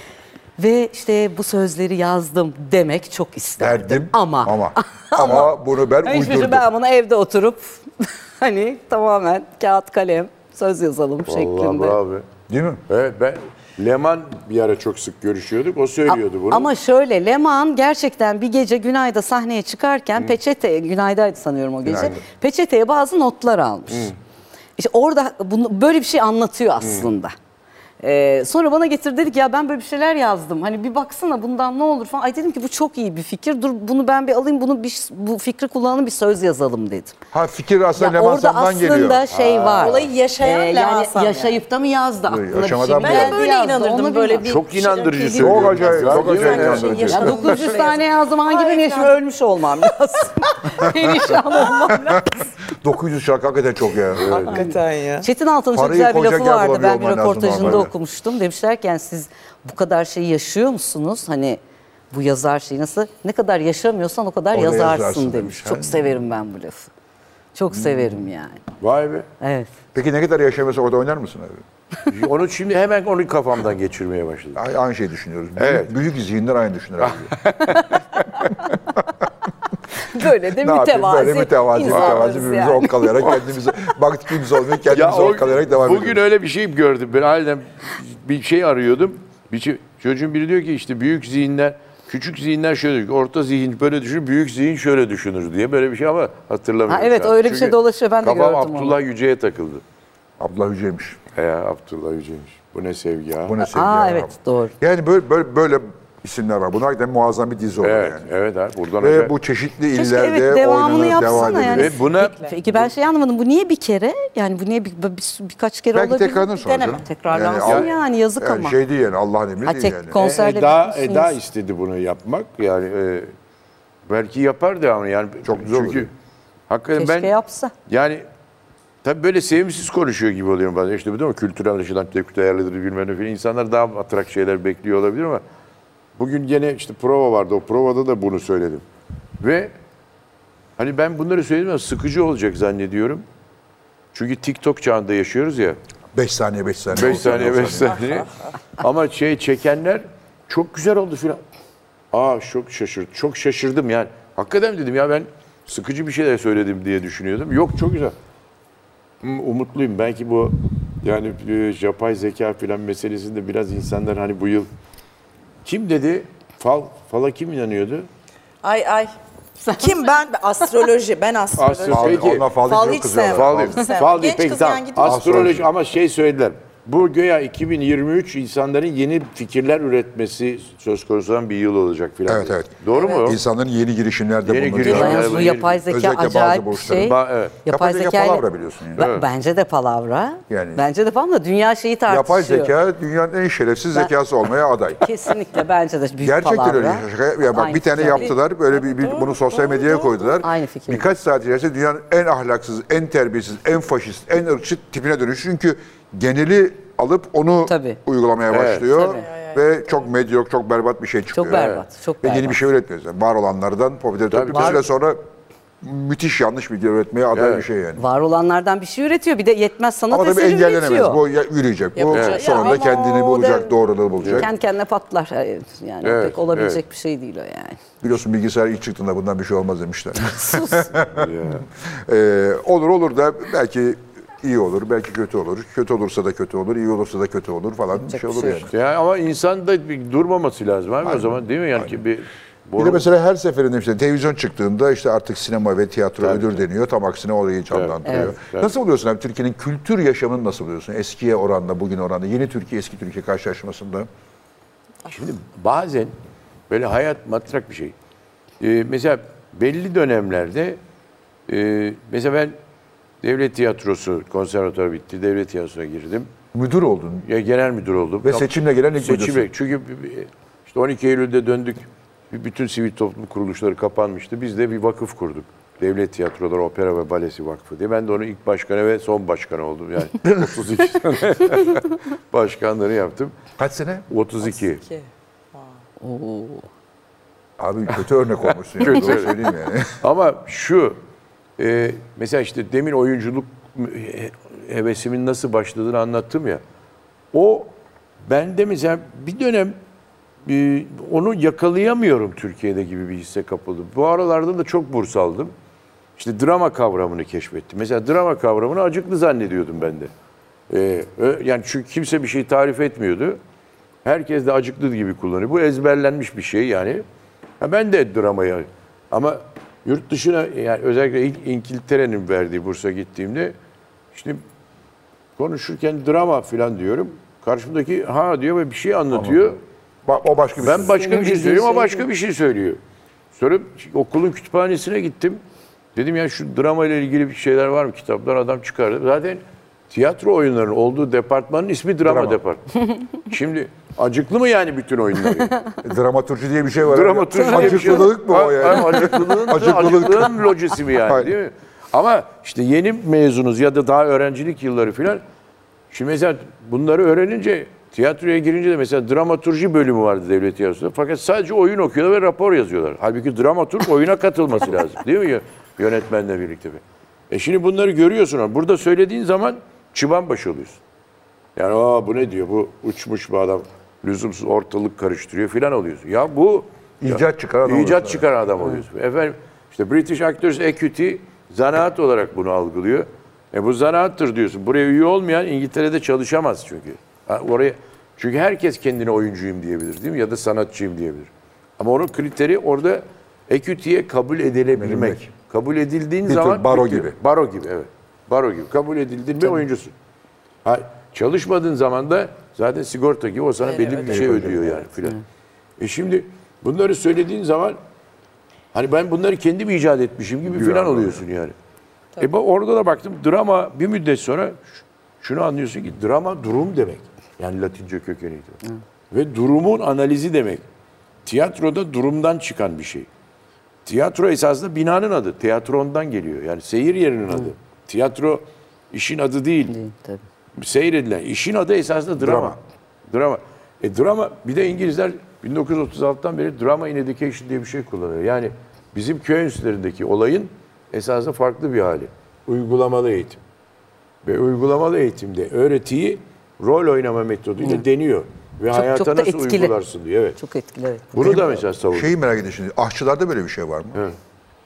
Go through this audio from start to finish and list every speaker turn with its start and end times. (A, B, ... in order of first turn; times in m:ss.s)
0:00.6-0:12.0 A
0:03.6-0:06.7 B
0:11.3-0:12.2 C
0:12.5-0:12.8 B
0:12.9-0:16.7 C
0:16.1-0:24.1 A
0:21.8-0:22.2 B
0:24.8-0:27.3 A
0:26.8-0:27.1 C
0:28.0-0:37.2 A
0:37.3-0:39.2 B
0:38.0-0:44.5 A
0:39.3-0:40.1 C
0:39.7-0:41.6 D
0:42.3-0:43.4 B
0:43.0-0:49.2 D
0:44.4-0:47.5 C
0:45.4-0:47.7 B
0:47.0-0:52.4 A
0:50.8-0:51.2 B
0:51.9-0:54.4 B
0:54.2-0:54.7 C
0:54.3-0:55.3 D
0:55.2-1:01.6 A
0:55.7-0:57.9 B
1:02.1-1:06.9 A
1:04.5-1:06.0 B
1:07.6-1:08.6 A
1:07.8-1:08.0 B
1:08.8-1:09.3 C
1:09.4-1:09.7 A
1:09.9-1:11.6 B
1:12.1-1:14.6 C
1:14.6-1:17.3 B
1:15.6-1:15.9 C
1:17.0-1:18.0 C
1:19.0-1:19.3 B
1:20.1-1:23.4 A
1:20.6-1:26.2 B
1:21.9-1:22.2 C
1:24.9-1:39.8 C
1:36.9-1:39.0 A
1:40.4-1:41.2 B
1:41.3-1:43.6 C
1:43.5-1:48.3 B
1:43.6-1:44.7 A
1:47.8-1:49.3 C
1:49.0-1:52.0 B
1:49.9-1:56.5 A
1:51.6-1:52.6 D
1:51.6-1:52.9 C
1:55.9-2:00.2 B
1:56.6-1:57.7 D
1:57.0-1:58.8 A
1:57.6-1:57.9 C
1:59.6-2:01.4 A
2:00.2-2:03.3 C
2:04.1-2:06.1 C
2:05.4-2:06.1 B
2:06.7-2:07.3 C
2:07.0-2:07.7 A
2:07.9-2:08.2 C
2:09.0-2:15.4 C
2:16.2-2:18.8 C
2:19.4-2:19.7 C
2:20.8-2:23.2 C
2:24.1-2:25.8 C
2:26.1-2:28.0 B
2:26.9-2:31.4 C
2:27.8-2:28.3 D
2:32.1-2:38.2 C
2:39.2-2:44.7 C
2:45.6-2:48.1 C
2:48.6-2:49.1 D
2:49.6-2:49.9 A
2:49.7-2:55.2 D
2:51.6-2:52.5 C
2:51.9-2:53.8 B
2:53.2-3:03.4 C
2:55.0-2:55.7 B
3:02.3-3:07.1 B
3:02.9-3:03.3 D
3:04.4-3:05.8 C
3:04.8-3:12.7 A
3:06.9-3:07.6 C
3:07.7-3:09.1 B
3:09.0-3:09.3 C
3:10.5-3:10.8 B
3:12.1-3:15.1 B
3:15.0-3:18.3 A
3:16.2-3:35.2 B
3:18.2-3:20.4 D
3:20.4-3:21.1 A
3:27.7-3:28.0 A
3:28.5-3:29.0 C
3:29.0-3:29.2 A
3:29.0-3:30.0 D
3:31.4-3:32.6 A
3:31.5-3:31.8 C
3:34.3-3:34.8 C
3:34.5-3:34.8 A
3:35.8-3:38.0 B
3:37.3-3:37.7 C
3:38.0-3:41.2 A
3:40.1-3:44.5 B
3:42.0-3:43.0 D
3:42.1-3:42.4 C
3:42.4-3:43.7 A
3:44.2-3:44.5 C
3:44.3-3:47.8 A
3:46.0-3:46.8 C
3:48.0-3:58.7 B
3:50.3-3:50.9 A
3:51.2-3:51.7 C
3:58.1-3:58.7 A
3:58.7-4:03.1 C
4:01.0-4:01.9 B
4:02.8-4:14.1 B
4:06.2-4:06.6 C
4:07.7-4:08.7 C
4:08.1-4:08.3 A
4:15.1-4:16.2 C
4:16.7-4:18.0 C
4:18.6-4:20.8 C
4:21.5-4:22.6 C
4:23.2-4:26.3 C
4:26.5-4:27.3 B
4:27.3-4:43.4 C
4:28.2-4:29.5 B
4:43.6-4:44.1 B
4:44.1-4:44.8 C
4:44.5-4:45.7 D
4:46.0-4:46.7 A
4:47.6-4:50.0 B
4:48.8-4:49.4 C
4:50.0-4:51.0 C
4:51.6-4:56.6 C
4:57.3-4:57.7 C
4:58.3-4:59.8 C
5:00.4-5:05.5 C
5:06.2-5:10.1 C
5:10.7-5:13.4 C
5:14.0-5:17.0 C
5:17.6-5:23.6 C
5:24.1-5:24.4 C
5:25.4-5:29.6 C
5:29.1-5:29.5 B
5:30.1-5:31.0 B
5:30.6-5:32.8 C
5:30.9-5:32.1 A
5:33.3-5:35.4 C
5:36.0-5:45.6 C
5:42.0-5:42.4 B
5:45.8-5:50.5 B
5:46.8-5:55.2 C
5:47.5-5:47.9 A
5:51.0-5:51.3 B
5:55.9-6:10.8 C
6:11.6-6:39.9 C
6:17.0-6:18.3 B
6:34.8-6:35.3 B
6:36.2-6:37.2 B
6:40.6-6:45.2 C
6:43.6-6:44.5 D
6:44.0-6:44.8 B
6:45.8-6:47.8 C
6:48.7-6:51.6 C
6:50.5-6:51.2 B
6:52.2-7:00.6 C
7:01.3-7:03.1 C
7:03.9-7:09.8 C
7:09.7-7:10.2 A
7:10.6-7:12.6 C
7:12.2-7:12.6 B
7:13.1-7:23.4 C
7:24.2-7:30.4 C
7:28.7-7:29.7 A
7:30.4-7:31.4 A
7:31.1-7:32.1 C
7:31.2-7:34.0 B